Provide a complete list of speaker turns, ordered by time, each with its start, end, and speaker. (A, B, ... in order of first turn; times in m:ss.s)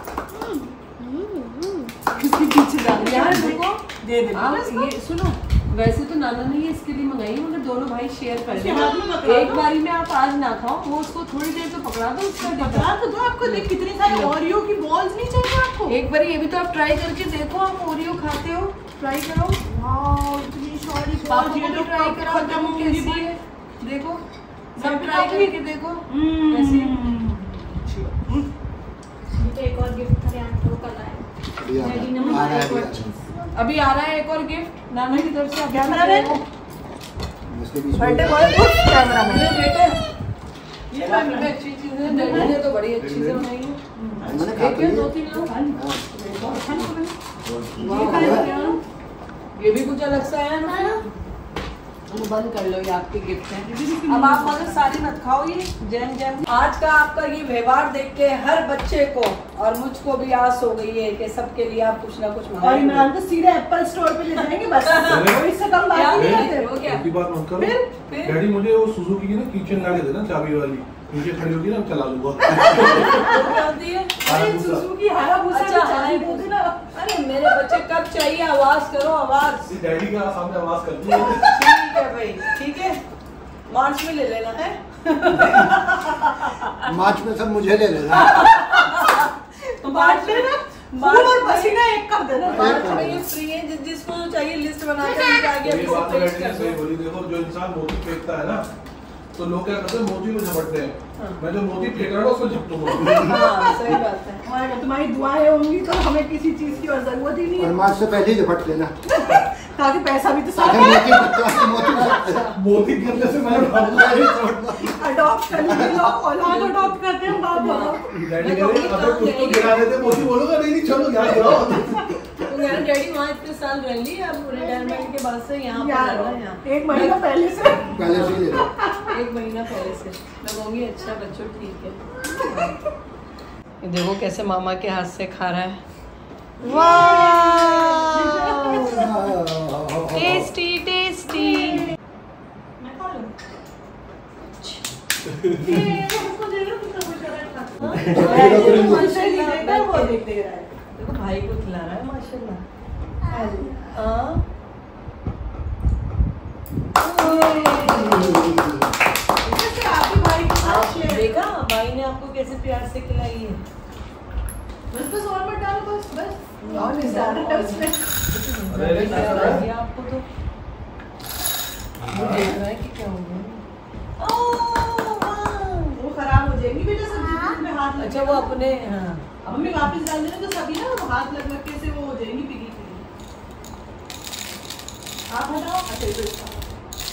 0:00.4-0:02.1 A
0:02.1-0:04.9 B
0:02.9-0:14.4 C
0:08.5-0:09.6 B
0:12.4-0:16.0 B
0:15.9-0:19.6 C
0:19.6-0:23.3 B
0:21.3-0:24.2 C
0:24.8-0:25.5 B
0:24.8-0:27.0 C
0:26.1-0:28.5 B
0:30.3-0:30.7 A
0:31.6-0:33.2 D
0:31.8-0:32.8 C
0:32.1-0:32.7 B
0:33.5-0:36.4 C
0:35.1-0:36.4 B
0:37.5-0:38.7 D
0:38.0-0:39.5 B
0:39.0-0:40.0 C
0:40.9-0:41.5 B
0:41.0-0:43.8 C
0:42.0-0:42.6 B
0:43.1-0:43.4 D
0:44.0-0:44.6 B
0:44.2-0:45.1 D
0:44.5-0:45.5 C
0:45.3-0:47.1 B
0:45.7-0:46.9 D
0:47.4-0:48.5 D
0:47.8-0:48.8 A
0:47.8-0:48.8 C
0:49.6-0:51.0 C
0:50.6-0:51.0 A
0:52.1-1:03.1 C
0:53.6-0:55.2 B
1:02.6-1:06.7 B
1:04.8-1:05.3 C
1:05.0-1:05.5 E
1:05.8-1:07.1 C
1:06.1-1:13.4 E
1:07.6-1:08.4 C
1:12.6-1:13.6 B
1:12.7-1:14.2 C
1:14.2-1:16.8 B
1:14.2-1:14.9 E
1:15.5-1:19.7 C
1:19.7-1:21.8 E
1:21.3-1:23.0 C
1:23.7-1:26.7 C
1:26.8-1:28.4 D
1:28.2-1:29.3 B
1:28.4-1:29.3 C
1:29.8-1:31.8 C
1:29.8-1:33.1 B
1:32.4-1:33.2 D
1:32.4-1:36.8 C
1:35.6-1:38.7 E
1:39.4-1:43.5 E
1:41.2-1:41.4 C
1:43.2-1:44.5 C
1:44.4-1:47.9 B
1:47.6-1:49.0 D
1:49.1-1:52.2 B
1:50.5-1:52.5 D
1:51.9-1:52.6 C
1:52.6-1:54.6 E
1:53.4-1:55.0 D
1:54.8-1:58.1 B
1:55.6-1:56.1 D
1:56.4-1:57.0 C
1:57.5-1:59.9 C
1:58.1-2:02.5 E
2:02.4-2:07.2 C
2:04.6-2:05.0 A
2:05.7-2:09.1 B
2:07.9-2:08.7 D
2:08.1-2:08.4 C
2:09.1-2:12.8 C
2:13.8-2:15.8 C
2:16.6-2:19.2 B
2:16.6-2:19.1 C
2:18.8-2:20.5 D
2:20.1-2:21.9 C
2:22.8-2:23.3 B
2:24.5-2:24.8 C
2:25.5-2:30.7 B
2:27.9-2:29.1 D
2:28.1-2:30.2 C
2:31.0-2:32.6 C
2:33.2-2:33.8 A
2:33.3-2:34.4 C
2:33.5-2:33.8 B
2:37.0-2:38.6 C
2:37.2-2:38.3 B
2:38.2-2:38.9 D
2:39.4-2:41.4 B
2:40.6-2:43.6 C
2:44.9-2:48.0 B
2:46.6-2:50.2 C
2:48.7-2:49.7 E
2:52.1-2:52.5 E
2:52.1-2:53.6 C
2:54.2-2:56.0 C
2:56.0-2:58.6 B
2:57.1-2:57.6 A
2:58.0-2:59.4 C
2:59.4-3:03.0 B
3:05.3-3:06.8 B